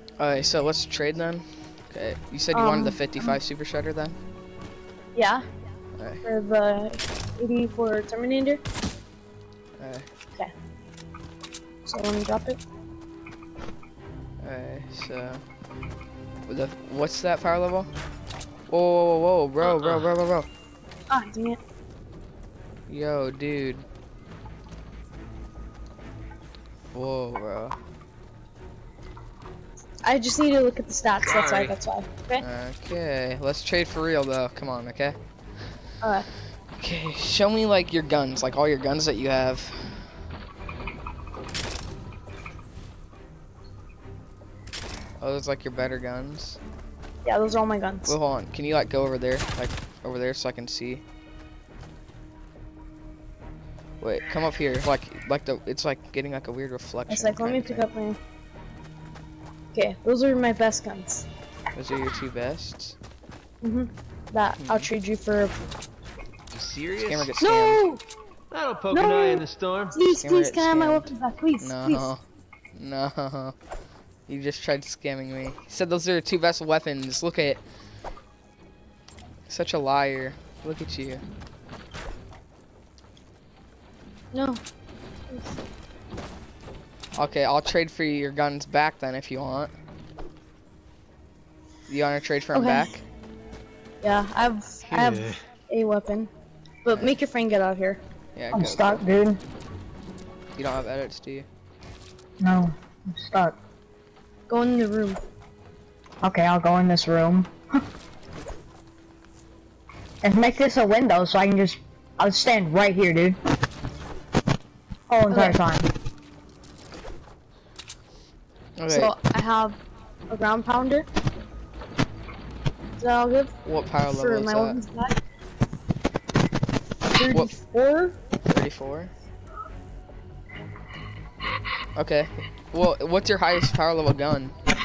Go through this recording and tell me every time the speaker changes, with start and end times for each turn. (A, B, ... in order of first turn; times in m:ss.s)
0:00.2-0:04.2 A
0:02.5-0:03.4 B
0:05.1-0:05.4 B
0:06.0-0:06.2 A
0:06.2-0:08.6 B
0:09.8-0:10.0 A
0:11.8-0:12.6 B
0:14.4-0:15.4 A
0:16.5-0:17.9 A
0:18.7-0:20.5 A
0:19.6-0:20.1 C
0:21.1-0:21.6 B
0:22.9-0:23.8 A
0:26.9-0:27.8 A
0:30.0-0:32.4 B
0:31.2-0:31.7 C
0:32.4-0:35.2 A
0:36.8-0:39.7 A
0:45.2-0:46.6 A
0:47.2-0:48.2 B
0:48.0-0:51.0 A
0:54.0-0:57.8 A
0:57.1-0:58.2 B
0:59.7-1:01.3 B
1:01.7-1:03.0 A
1:03.6-1:05.5 B
1:04.6-1:04.9 A
1:06.5-1:07.3 C
1:07.0-1:07.8 A
1:07.4-1:08.0 B
1:08.5-1:10.0 C
1:08.9-1:12.1 B
1:10.1-1:12.2 A
1:12.7-1:13.5 A
1:14.3-1:17.6 A
1:19.5-1:21.2 A
1:24.3-1:24.6 B
1:25.3-1:25.5 B
1:27.2-1:29.7 A
1:31.9-1:33.0 A
1:32.5-1:33.0 B
1:34.0-1:36.3 B
1:34.9-1:35.4 C
1:36.8-1:38.0 B
1:36.9-1:37.2 A
1:38.3-1:39.0 A
1:38.5-1:39.4 D
1:40.6-1:41.4 A
1:42.4-1:43.6 D
1:44.5-1:45.2 B
1:46.2-1:47.5 D
1:50.2-1:53.4 D
1:55.1-1:55.9 D
1:55.3-1:55.6 B
1:58.8-1:59.1 A
1:58.9-1:59.7 B
2:00.3-2:01.1 B
2:03.0-2:03.5 B
2:03.6-2:04.8 A
2:04.0-2:05.1 B
2:07.1-2:08.2 B
2:08.4-2:09.1 A
2:12.0-2:14.5 A